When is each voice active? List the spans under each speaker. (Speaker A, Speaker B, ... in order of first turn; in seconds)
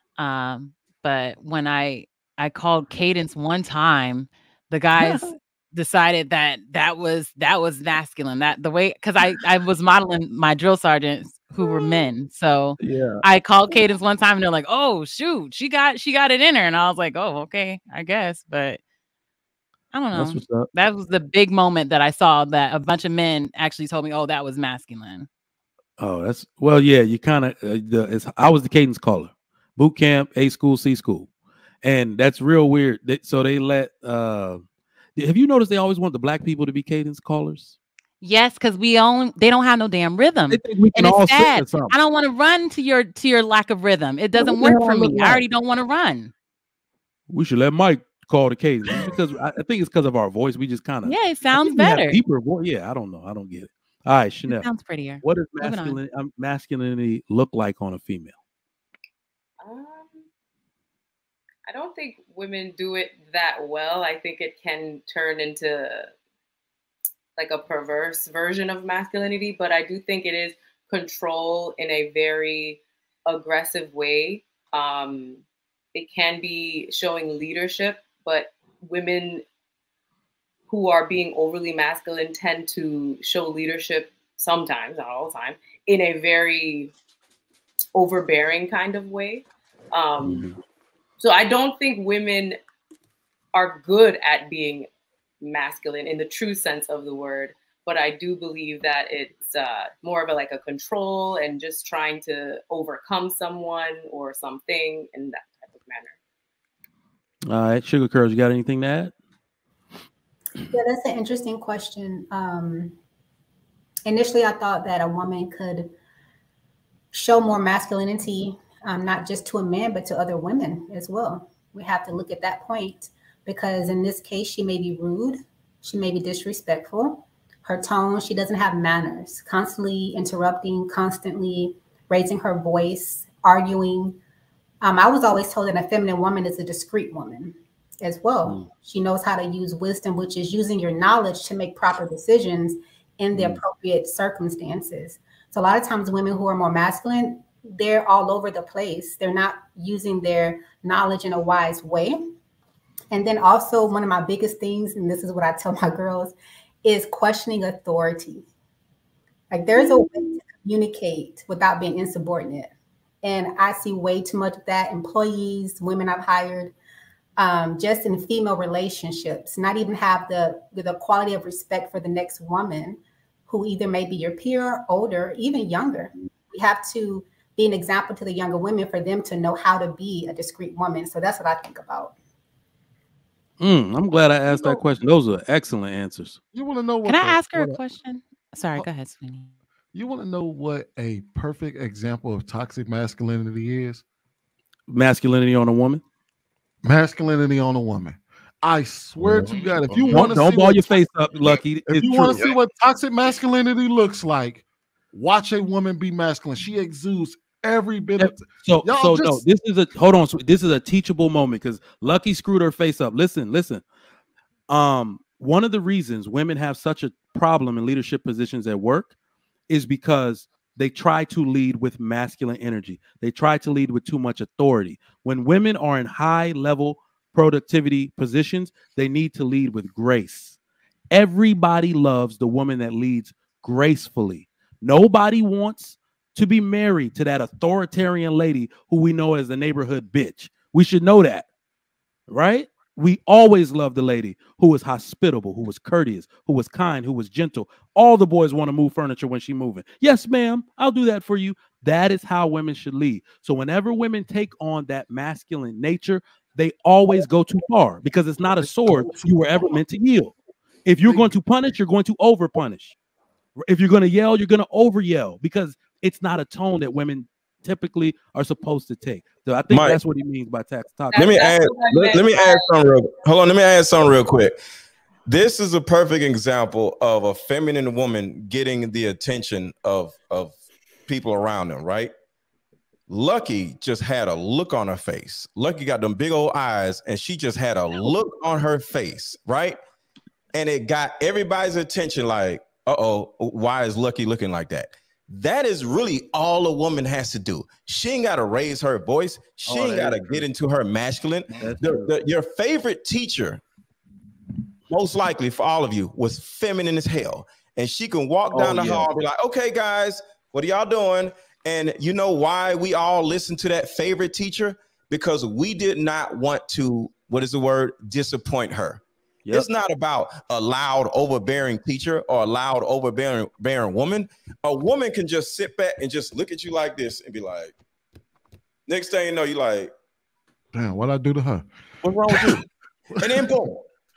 Speaker A: 0.2-18.8, 19.9-25.3, 38.2-46.3, 51.0-52.2, 54.5-56.0, 187.0-189.5
Speaker B: 5.0-5.3, 12.8-13.2, 20.1-20.7, 26.0-31.3, 31.8-34.6, 35.1-37.7, 40.5-42.0, 44.4-45.4, 47.3-54.7, 55.2-58.4, 90.2-90.6, 107.5-109.1, 143.3-143.6, 183.6-186.4, 194.9-196.0, 200.1-202.5, 208.2-213.8, 214.7-219.1, 219.7-230.6, 231.1-241.4, 242.3-260.3, 260.9-262.9, 263.6-271.3, 299.6-300.5, 301.5-302.1, 308.5-309.1
Speaker C: 59.6-60.2, 61.6-66.1, 67.4-75.4, 75.9-79.4, 80.7-86.9, 87.9-90.5, 91.2-92.6, 93.5-94.9, 95.4-106.2, 271.1-272.7
Speaker D: 110.7-112.9, 114.0-115.9, 117.1-134.2, 134.8-152.2, 153.1-158.4, 159.5-162.7, 163.2-166.7, 167.4-182.1
Speaker E: 184.5-184.8, 186.5-187.8, 189.9-194.0, 196.8-209.4, 258.8-259.1, 330.7-331.6, 332.3-332.6, 333.1-333.5
Speaker F: 199.2-199.5, 269.7-270.0, 271.2-274.6, 275.3-280.6, 281.1-282.1, 283.1-289.8, 290.5-303.6, 304.9-327.7, 328.9-329.9, 332.0-332.6, 333.2-333.8